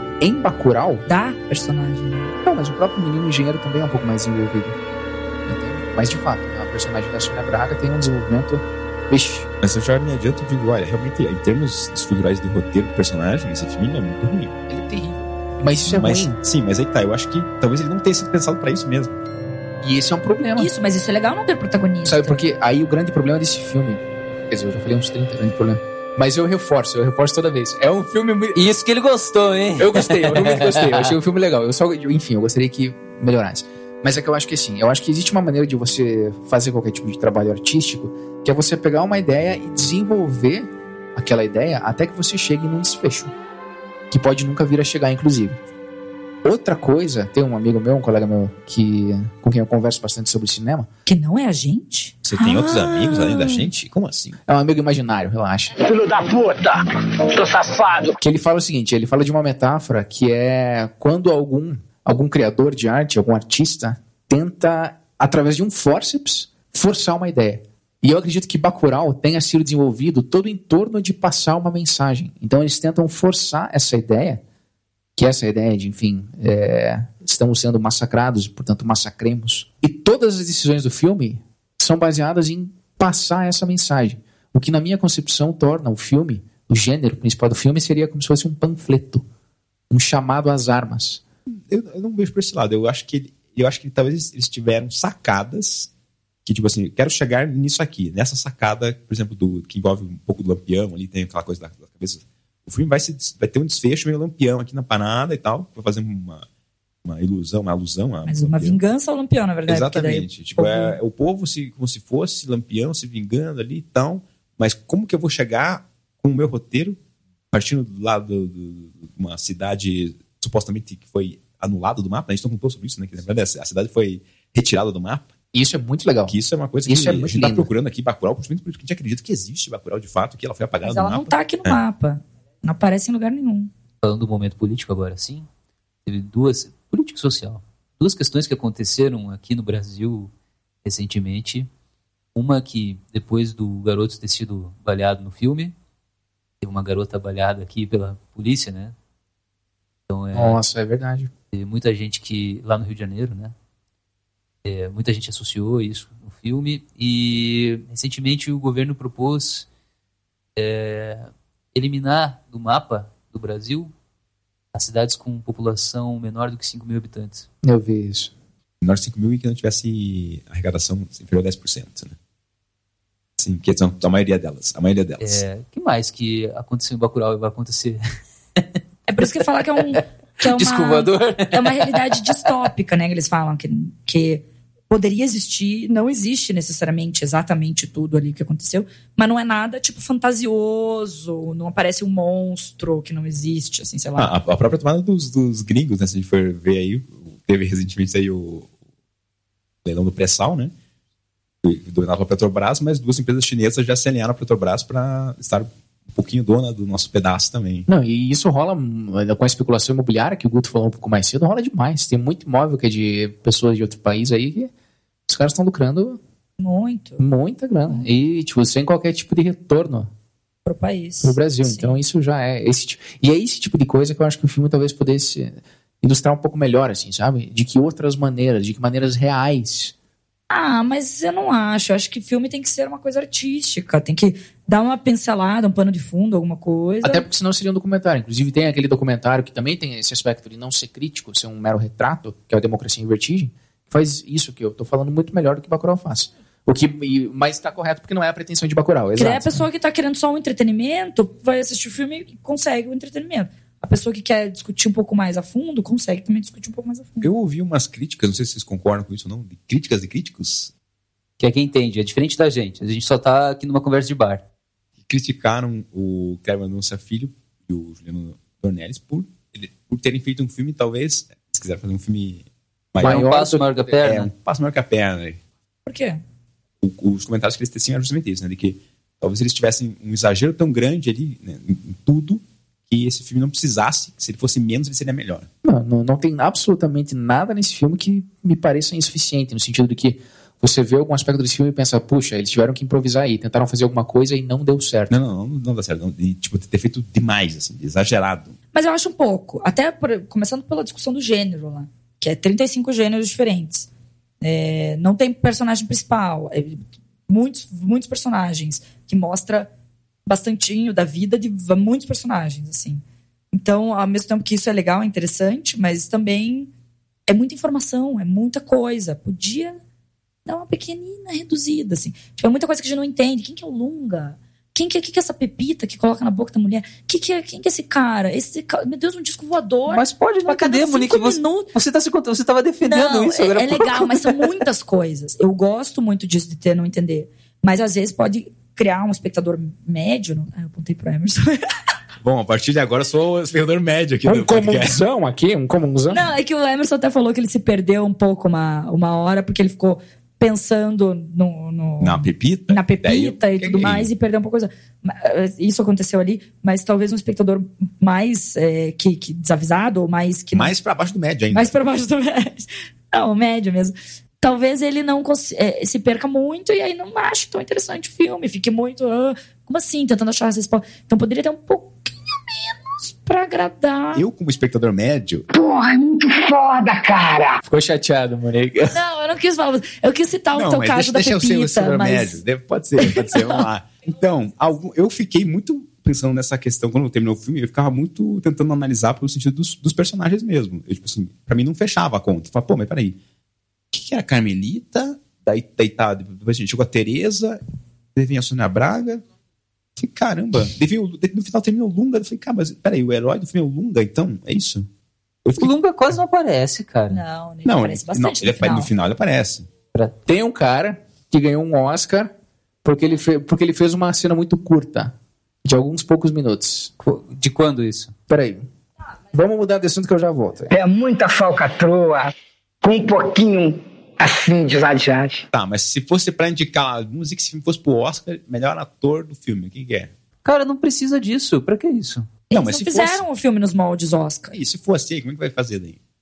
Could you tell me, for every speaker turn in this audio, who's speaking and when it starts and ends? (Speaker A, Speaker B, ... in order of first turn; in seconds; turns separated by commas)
Speaker A: 0.2-1.1, Speaker B: 1.1-2.3, Speaker A: 2.4-4.8, Speaker A: 5.5-9.5, Speaker C: 9.6-14.5, Speaker A: 14.7-16.4, Speaker C: 15.8-19.1, Speaker A: 19.8-20.7, Speaker B: 20.6-22.4, Speaker A: 22.0-28.6, Speaker D: 28.5-31.1, Speaker A: 29.8-43.3, Speaker A: 44.1-45.6, Speaker A: 46.4-50.9, Speaker B: 51.1-53.6, Speaker C: 52.2-54.4, Speaker A: 54.5-55.8, Speaker E: 55.8-58.1, Speaker A: 58.2-74.4, Speaker A: 75.2-89.2, Speaker A: 89.9-91.2, Speaker C: 91.5-95.9, Speaker C: 96.5-106.5, Speaker C: 107.0-108.8, Speaker B: 108.2-111.0, Speaker C: 109.7-117.0, Speaker C: 117.5-125.3, Speaker A: 125.5-127.7, Speaker C: 126.3-131.8, Speaker B: 130.8-133.7, Speaker D: 134.0-135.5, Speaker D: 136.1-140.3, Speaker D: 140.8-141.7, Speaker D: 142.3-145.7, Speaker D: 146.6-148.9, Speaker D: 150.1-150.6, Speaker A: 150.3-151.3, Speaker D: 151.5-153.5, Speaker D: 154.6-159.7, Speaker D: 160.6-163.9, Speaker D: 164.7-167.5, Speaker A: 167.6-168.3, Speaker C: 168.8-172.2, Speaker C: 173.4-175.4, Speaker D: 175.2-178.0, Speaker D: 178.6-182.5, Speaker B: 179.1-194.3, Speaker C: 194.2-198.7, Speaker C: 199.8-200.7, Speaker C: 201.6-207.9, Speaker A: 207.9-214.7, Speaker A: 215.3-216.2, Speaker B: 216.6-217.2, Speaker A: 217.2-220.1, Speaker B: 220.7-222.0, Speaker A: 221.2-229.9, Speaker B: 230.5-237.2, Speaker A: 237.0-249.7, Speaker B: 249.2-257.3, Speaker C: 257.2-260.7, Speaker D: 261.4-264.4, Speaker C: 265.0-273.2, Speaker A: 273.0-273.9, Speaker D: 273.0-274.3, Speaker C: 274.0-275.4, Speaker B: 275.9-276.2, Speaker C: 276.8-285.5, Speaker A: 285.6-295.1, Speaker C: 295.1-298.5, Speaker B: 298.7-303.9, Speaker B: 304.4-309.7, Speaker B: 310.2-316.7, Speaker B: 317.3-319.8, Speaker B: 320.4-331.7, Speaker D: 329.9-334.6, Speaker B: 332.9-341.6, Speaker C: 342.2-345.0, Speaker A: 344.2-346.2, Speaker B: 346.1-360.7, Speaker C: 352.0-354.1, Speaker C: 360.5-361.7, Speaker B: 361.5-374.2, Speaker C: 374.1-375.5, Speaker E: 375.5-377.6, Speaker A: 377.6-378.9, Speaker B: 378.9-382.4, Speaker C: 380.5-393.2, Speaker B: 383.0-383.6, Speaker C: 393.9-397.6, Speaker C: 398.1-399.2, Speaker C: 400.0-404.9, Speaker C: 405.4-405.7, Speaker D: 405.6-407.2, Speaker B: 407.1-408.9, Speaker C: 407.6-409.7, Speaker A: 410.2-412.3, Speaker A: 412.8-416.9, Speaker D: 417.0-418.1, Speaker A: 418.3-418.7, Speaker A: 419.3-420.7, Speaker E: 420.7-422.3, Speaker E: 422.8-425.4, Speaker C: 425.5-430.1, Speaker D: 430.4-432.3, Speaker B: 432.5-434.6, Speaker C: 432.5-433.2, Speaker C: 434.5-436.0